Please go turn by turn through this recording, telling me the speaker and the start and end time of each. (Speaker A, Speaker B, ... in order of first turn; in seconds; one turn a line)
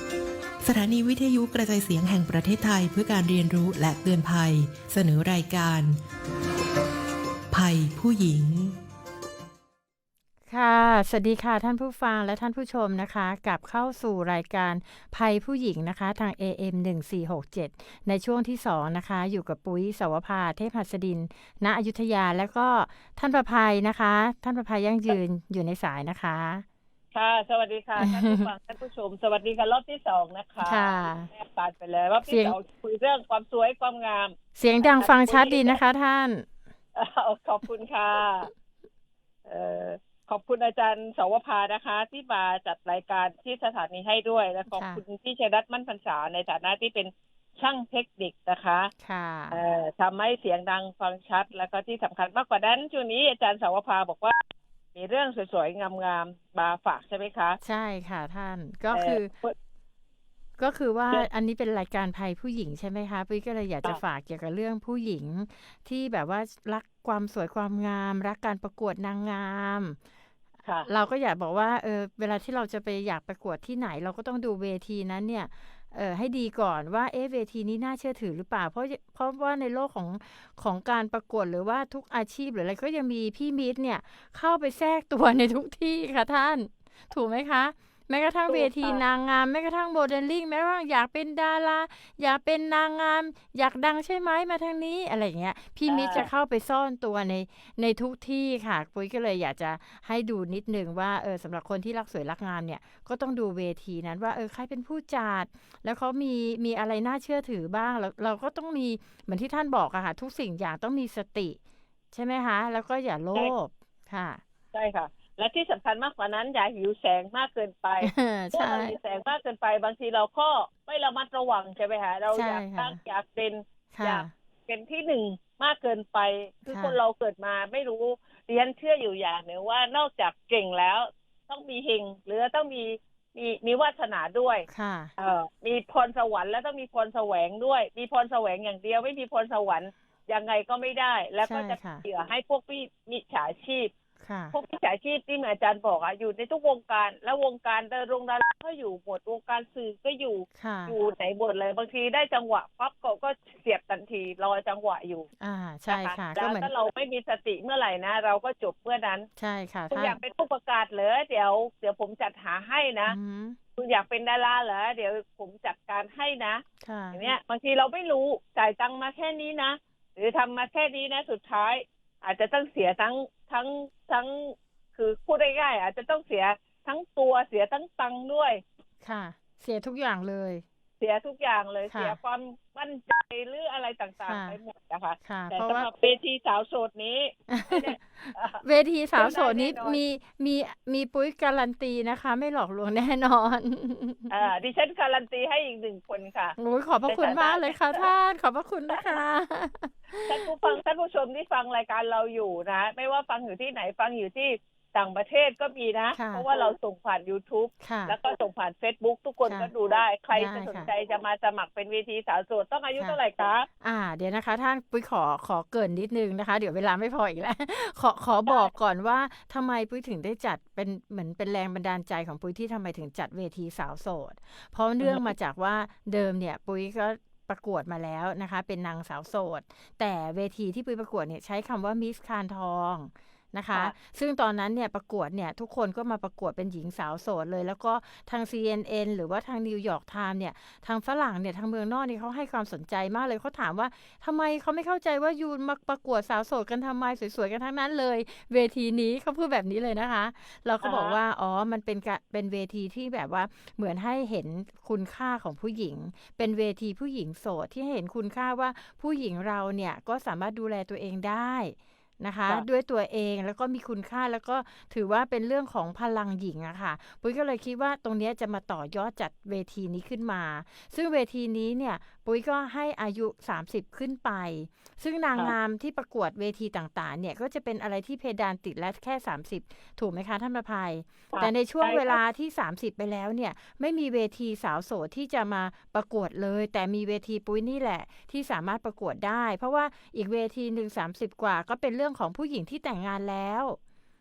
Speaker A: 0.6-6.0
Speaker A: 7.5-8.8
Speaker B: 10.5-26.6
Speaker C: 27.1-35.8
Speaker B: 28.0-28.5
Speaker B: 30.6-31.3
Speaker B: 32.2-32.6
Speaker B: 34.5-36.5
Speaker C: 36.9-38.5
Speaker C: 39.4-48.9
Speaker B: 44.7-45.0
Speaker B: 49.0-49.6
Speaker C: 49.5-54.4
Speaker C: 54.9-57.6
Speaker B: 57.6-59.3
Speaker C: 58.9-59.5
Speaker B: 60.6-70.0
Speaker B: 70.9-111.6
Speaker C: 88.5-89.0
Speaker C: 95.9-96.3
Speaker B: 112.1-114.4
Speaker C: 114.7-134.7
Speaker B: 118.0-119.0
Speaker B: 122.3-123.0
Speaker B: 123.9-124.3
Speaker B: 126.7-127.0
Speaker B: 134.7-135.1
Speaker C: 135.2-143.9
Speaker B: 141.4-142.0
Speaker B: 144.2-144.5
Speaker C: 144.5-155.3
Speaker B: 150.6-150.9
Speaker B: 155.4-156.7
Speaker C: 155.9-159.3
Speaker B: 159.4-160.2
Speaker C: 159.9-163.2
Speaker B: 163.1-163.6
Speaker C: 163.8-178.6
Speaker B: 166.8-167.2
Speaker B: 179.0-180.6
Speaker C: 181.0-188.6
Speaker B: 181.9-182.2
Speaker B: 184.2-184.6
Speaker B: 185.2-185.9
Speaker B: 187.5-194.4
Speaker C: 189.2-190.0
Speaker C: 194.3-196.6
Speaker B: 196.6-200.5
Speaker C: 197.1-198.1
Speaker C: 200.3-213.7
Speaker B: 206.1-206.4
Speaker B: 207.8-208.1
Speaker B: 209.4-209.7
Speaker B: 210.3-210.9
Speaker B: 213.8-293.8
Speaker C: 218.4-218.7
Speaker C: 225.0-225.3
Speaker C: 250.8-251.2
Speaker C: 281.3-282.2